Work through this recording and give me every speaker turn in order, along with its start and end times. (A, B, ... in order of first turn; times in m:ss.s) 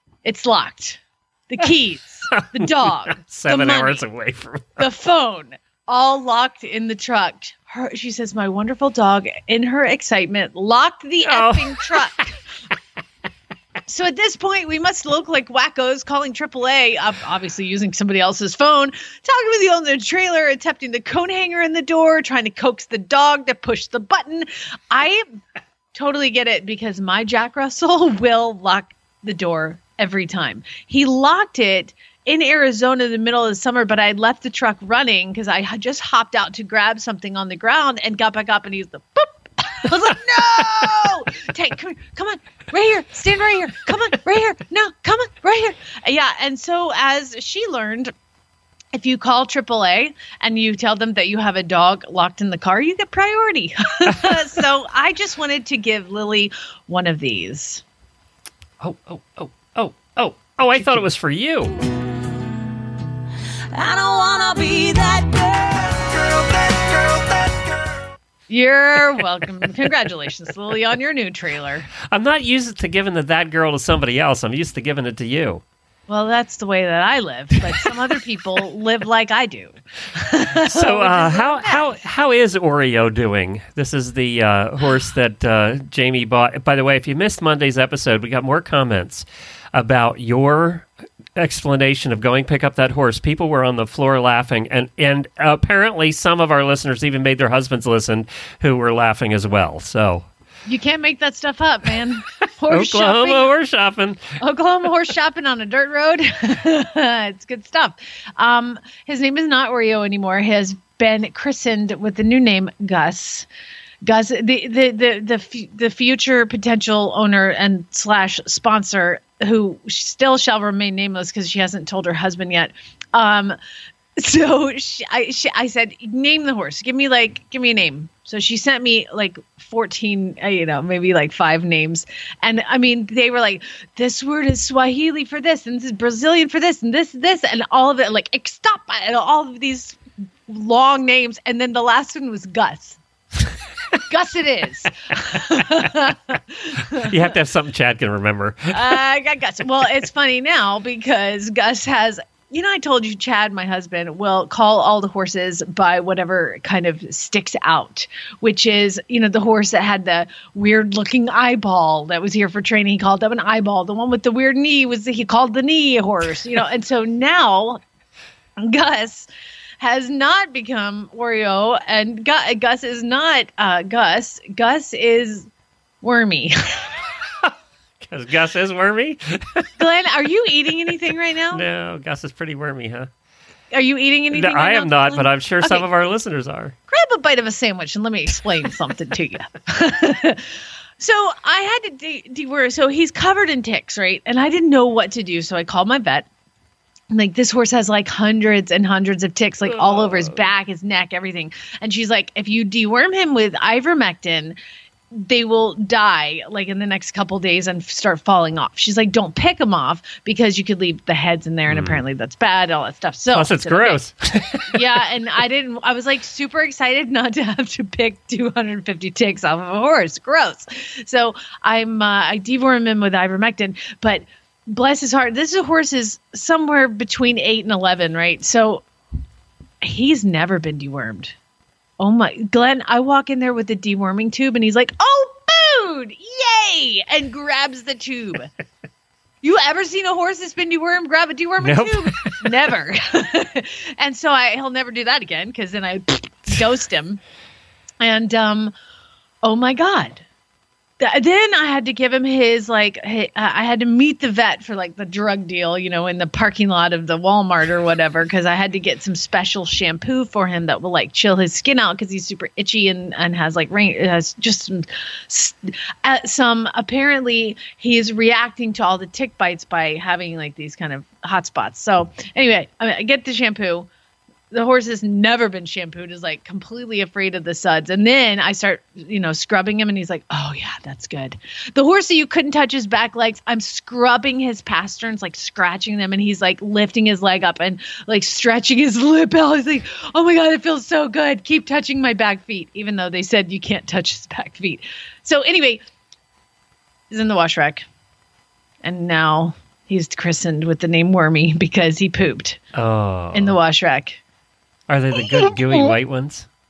0:00.2-0:04.0 A
0:02.3-0:04.9 B
0:04.8-0:12.3 A
0:11.2-0:12.0 B
0:13.9-0:25.2 A
0:25.9-0:48.1 A
0:48.9-0:57.8 A
0:58.8-1:01.7 B
1:03.7-1:06.1 C
1:08.5-1:11.9 A
1:12.1-1:15.6 B
1:16.1-1:21.9 A
1:20.6-1:40.3 B
1:40.6-1:43.5 A
1:42.7-1:44.4 B
1:44.4-1:53.5 A
1:54.0-2:03.6 A
2:04.2-2:23.0 A
2:24.1-2:27.1 A
2:27.0-2:29.0 B
2:28.7-2:47.8 A
2:48.6-2:49.3 A
2:49.8-2:55.5 A
2:56.0-2:56.5 A
2:58.0-2:59.7 B
2:59.8-3:01.6 A
3:01.5-3:03.1 B
3:03.7-3:05.8 A
3:04.3-3:06.7 B
3:06.9-3:10.4 A
3:11.0-3:16.3 A
3:17.1-3:24.6 A
3:19.6-3:20.5 B
3:25.1-3:34.0 A
3:31.7-3:32.0 B
3:33.3-3:34.8 B
3:34.7-3:48.8 A
3:49.8-3:51.3 A
3:52.0-3:58.5 A
3:59.4-4:07.2 A
4:01.6-4:02.5 B
4:08.0-4:08.7 A
4:09.4-4:10.2 A
4:11.0-4:33.9 A
4:34.5-4:55.8 A
4:57.1-4:57.8 A
4:58.8-5:02.6 A
5:02.7-5:03.6 B
5:03.3-5:04.2 A
5:04.9-5:06.5 B
5:05.2-5:05.9 A